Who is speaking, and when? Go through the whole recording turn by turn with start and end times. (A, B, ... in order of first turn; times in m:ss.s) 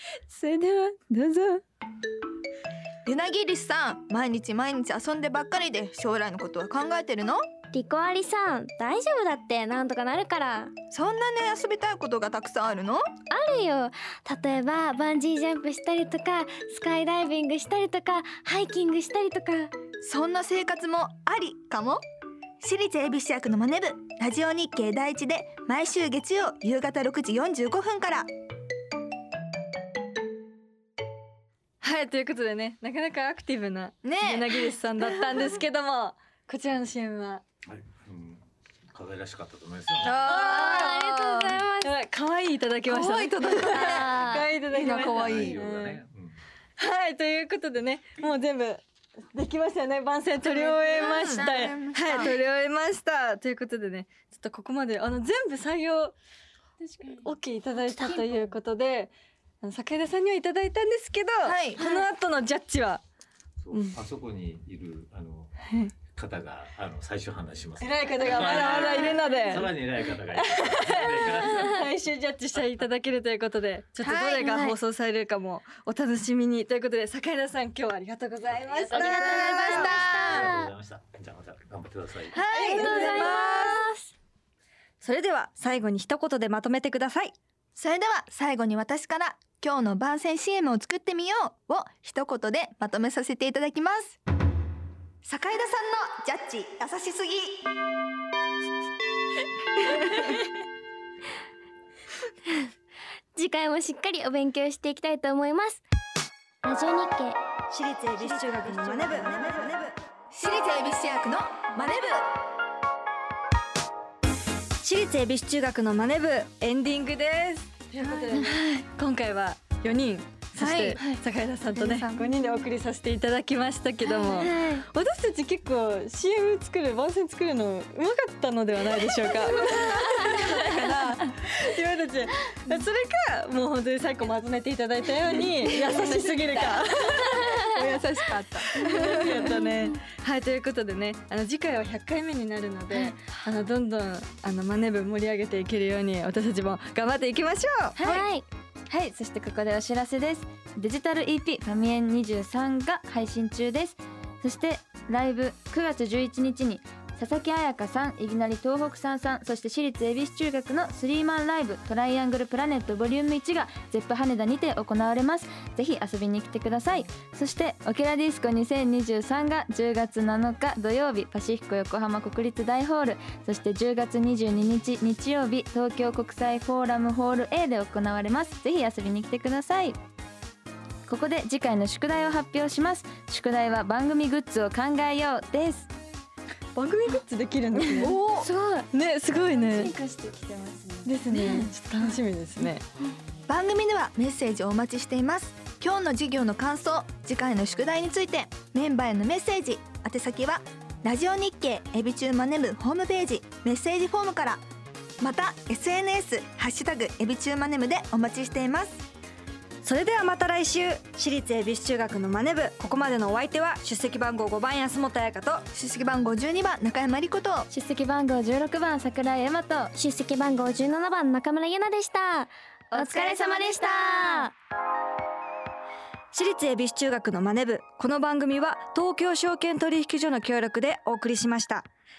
0:00.3-0:01.6 A
0:03.0-0:07.4 B
0:07.7-0:10.7 C
0:10.9-0:13.0 B
0:13.3-0:19.7 C
0:20.0-0:22.0 B
0:22.6-0:28.3 B
0:31.8-0:37.4 D
0:34.0-0:34.5 B
0:37.7-0:40.3 E
0:40.0-0:41.5 B
0:40.3-0:40.9 D
0:40.3-0:41.9 C
0:41.8-0:46.0 D
0:42.8-0:44.2 B
0:43.4-0:44.5 C
0:44.7-0:45.6 B
0:44.9-0:46.4 E
0:46.8-0:48.8 D
0:49.3-0:56.1 D
0:50.4-0:52.3 B
0:51.0-0:51.4 C
0:57.1-1:03.0 D
1:01.4-1:01.8 B
1:01.8-1:02.0 C
1:03.6-1:05.5 E
1:03.7-1:04.0 D
1:05.6-1:05.9 D
1:06.1-1:11.8 E
1:07.8-1:09.7 D
1:10.4-1:20.0 D
1:14.0-1:14.5 B
1:14.4-1:14.7 C
1:18.8-1:20.7 C
1:18.8-1:20.5 B
1:19.8-1:22.4 E
1:22.3-1:24.1 C
1:22.3-1:23.8 B
1:22.5-1:23.6 D
1:25.0-1:27.3 D
1:27.8-1:34.2 B
1:35.2-1:37.7 B
1:40.1-1:40.4 C
1:43.3-1:45.8 C
1:46.6-1:47.4 C
1:47.7-1:50.0 D
1:48.7-1:49.6 B
1:50.3-1:52.3 B
1:54.8-2:18.1 D
1:58.0-1:58.5 B
1:58.4-1:58.8 C
2:00.6-2:01.0 B
2:01.8-2:02.4 B
2:04.0-2:04.8 C
2:09.4-2:11.2 B
2:10.0-2:10.2 C
2:15.9-2:16.8 B
2:17.7-2:19.5 B
2:18.6-2:28.0 D
2:28.0-2:28.3 B
2:28.0-2:28.4 C
2:28.9-3:00.0 A
3:01.0-3:05.9 A
3:06.7-3:08.2 D
3:07.7-3:08.5 B
3:08.4-3:08.8 C
3:08.9-3:09.9 D
3:09.5-3:11.7 A
3:11.0-3:12.8 D
3:13.5-3:24.6 B
3:25.2-3:29.0 B
3:29.8-3:35.6 D
3:35.7-3:37.7 B
3:37.7-3:39.9 A
3:39.9-3:44.5 C
3:42.9-3:44.4 A
3:46.3-3:51.9 D